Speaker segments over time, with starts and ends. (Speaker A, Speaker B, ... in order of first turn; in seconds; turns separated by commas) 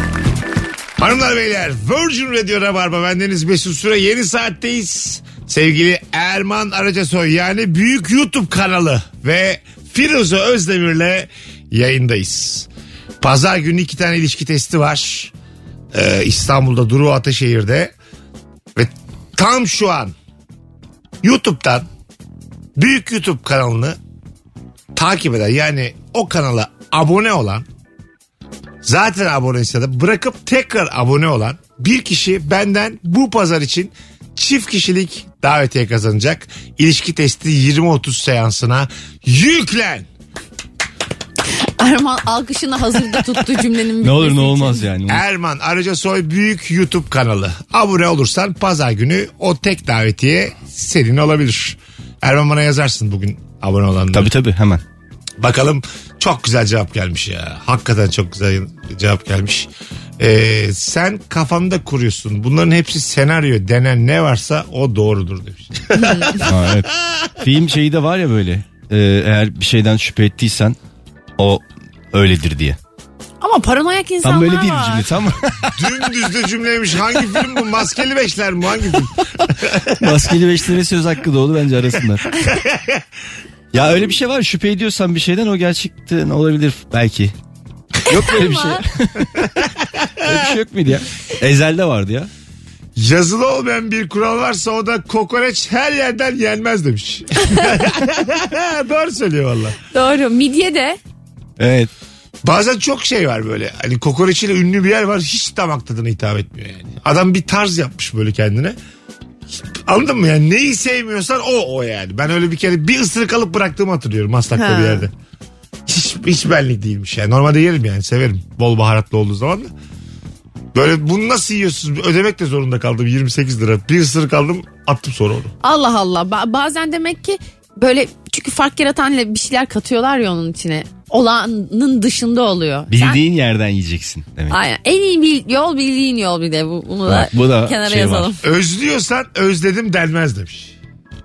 Speaker A: 1.0-12.7, Speaker A: 13.2-15.3, Speaker A: 15.9-17.9, Speaker A: 18.8-20.1, Speaker A: 21.2-21.9, Speaker A: 22.8-24.0, Speaker A: 24.9-27.6, Speaker A: 28.8-40.1, Speaker B: 41.5-44.8, Speaker C: 44.0-45.2, Speaker A: 45.1-54.3, Speaker C: 54.1-54.8, Speaker A: 55.4-67.3, Speaker B: 65.9-66.4, Speaker C: 66.4-70.8, Speaker C: 71.4-72.8, Speaker B: 73.4-75.2, Speaker C: 74.2-76.1, Speaker A: 75.7-80.2, Speaker C: 79.9-82.3, Speaker A: 82.4-83.0, Speaker C: 83.7-87.3, Speaker A: 83.7-84.0, Speaker C: 88.0-89.5, Speaker B: 88.1-88.8, Speaker A: 89.4-90.6, Speaker C: 90.2-92.3, Speaker A: 93.0-99.8, Speaker B: 97.3-97.8, Speaker B: 99.8-101.0, Speaker C: 101.6-101.9, Speaker A: 102.4-108.8, Speaker A: 109.5-115.1, Speaker B: 114.5-115.0, Speaker A: 115.9-119.7, Speaker A: 120.7-125.5, Speaker B: 125.6-133.2, Speaker C: 132.9-134.6, Speaker B: 134.5-138.4, Speaker C: 137.1-138.3, Speaker A: 138.4-140.7